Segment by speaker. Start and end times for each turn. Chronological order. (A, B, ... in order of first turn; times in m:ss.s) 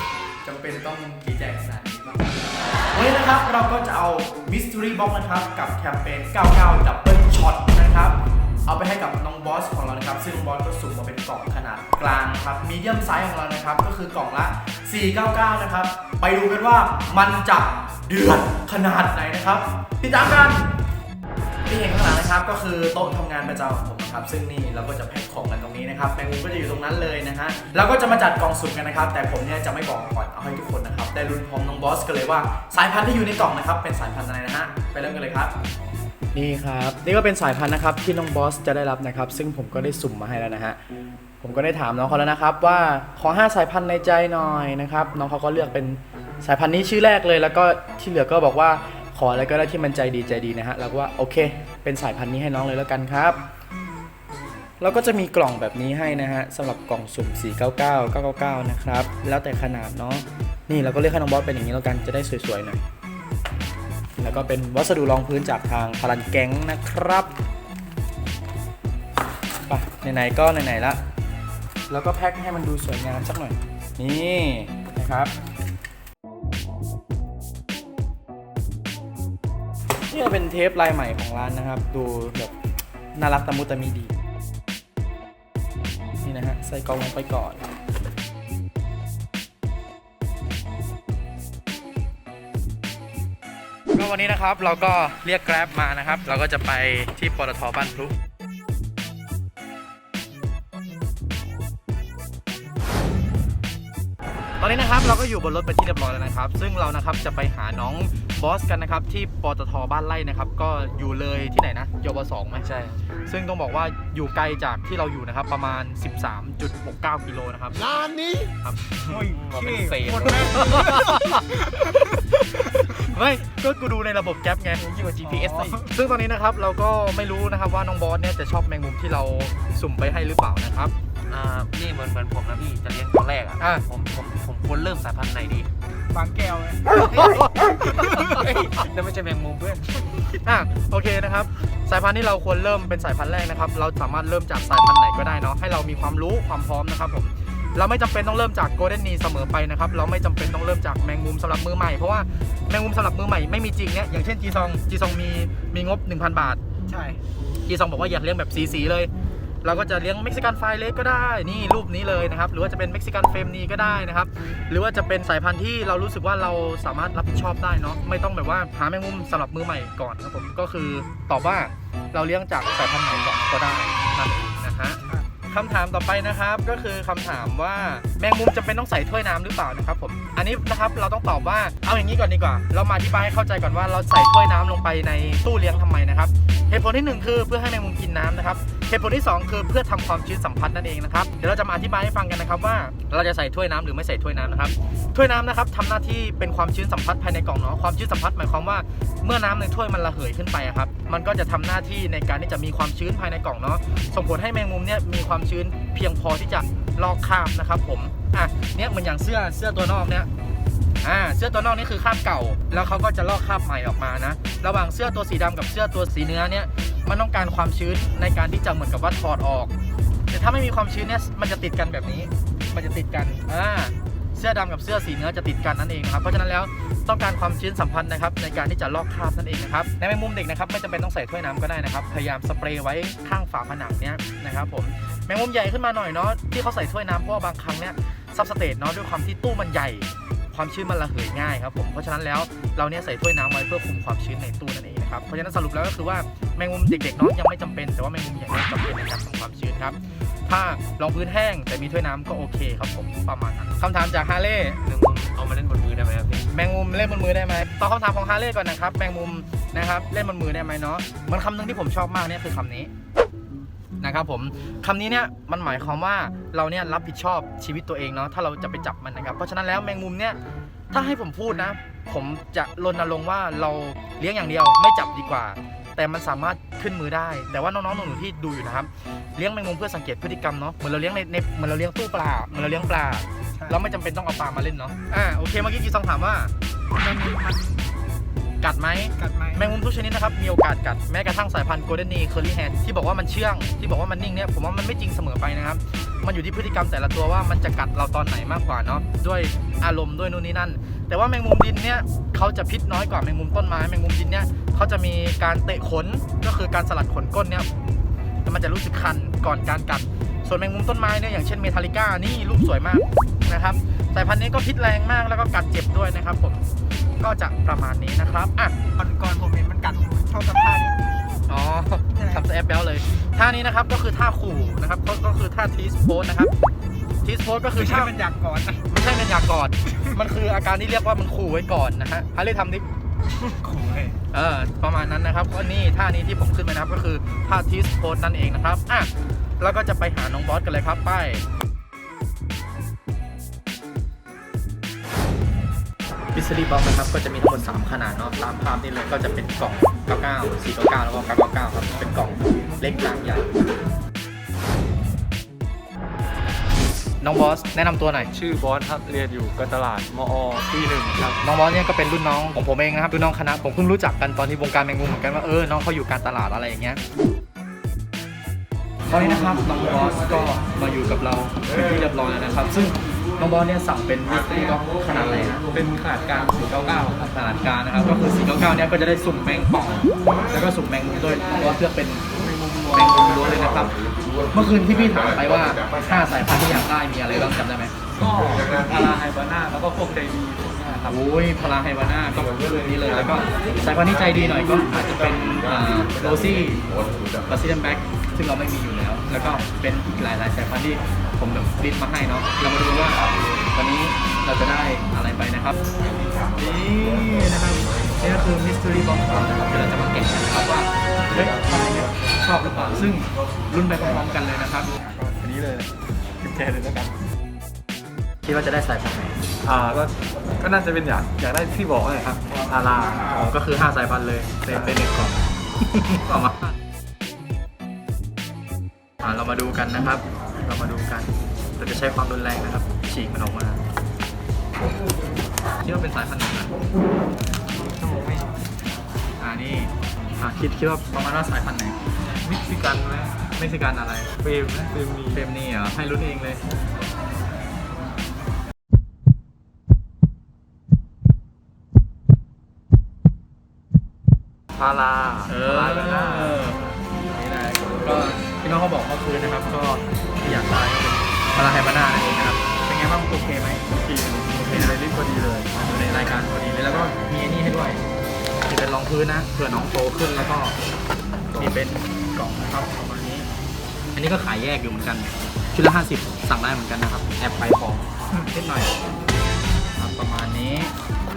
0:00.4-0:02.4 A
0:02.9-0:20.7 A
0:21.7-0:35.6 A
0:36.3-0:40.8 A
0:41.4-0:53.4 A
0:54.8-1:02.9 A
1:04.2-1:07.4 A
1:09.7-1:11.0 A
1:11.9-1:15.4 A
1:20.1-1:22.5 A
1:23.1-1:24.1 A
1:26.2-1:27.7 A
1:33.9-1:38.2 A
1:44.6-1:52.7 A
1:52.6-1:53.0 B
1:53.3-1:57.8 A
1:58.6-1:59.1 A
1:59.1-2:01.8 C
1:59.1-2:00.7 B
2:00.5-2:04.8 A
2:04.8-2:05.8 B
2:05.2-2:05.9 C
2:05.8-2:10.9 A
2:11.3-2:15.7 B
2:13.6-2:13.8 A
2:16.1-2:18.3 C
2:18.0-2:18.2 A
2:18.2-2:20.0 B
2:20.4-2:36.6 A
2:36.9-2:37.2 C
2:37.7-2:39.1 A
2:39.6-3:30.3 A
3:31.0-3:39.7 A
3:40.3-4:14.8 A
4:14.8-4:16.5 B
4:16.5-4:22.9 A
4:24.0-4:30.4 A
4:30.9-4:46.5 A
4:43.6-4:43.8 C
4:46.9-4:47.8 C
4:48.6-5:07.7 A
4:49.2-4:49.8 C
5:08.4-5:16.6 A
5:17.2-5:18.7 A
5:18.9-5:21.0 C
5:21.5-5:26.5 A
5:22.2-5:22.4 C
5:27.2-5:28.1 A
5:27.8-5:28.9 C
5:28.9-5:32.9 A
5:33.4-5:34.2 C
5:34.3-5:41.4 A
5:46.4-5:53.6 A
5:57.2-5:58.3 A
5:58.3-6:01.4 D
6:01.4-6:07.0 A
6:09.1-6:15.7 A
6:15.7-6:17.2 D
6:17.0-6:22.3 A
6:22.4-6:23.0 D
6:22.9-6:24.0 A
6:24.5-6:27.9 A
6:28.2-6:31.2 D
6:31.1-6:45.8 A
6:46.5-6:54.9 A
6:55.2-6:57.1 D
6:58.4-6:59.4 A
6:59.6-7:03.4 D
7:03.3-7:06.8 A
7:04.7-7:05.0 D
7:09.2-7:13.8 A
7:15.8-7:16.7 A
7:17.9-7:18.5 D
7:19.4-7:22.0 A
7:22.4-7:23.4 D
7:23.6-7:24.3 A
7:24.4-7:25.4 D
7:25.3-7:26.6 A
7:34.8-7:36.7 D
7:35.5-7:36.8 A
7:37.3-7:43.9 A
7:44.0-7:45.7 D
7:44.5-7:45.0 A
7:45.8-7:48.0 A
7:48.7-7:50.8 A
7:51.5-7:53.5 A
7:54.2-7:58.9 A
8:00.0-8:00.9 A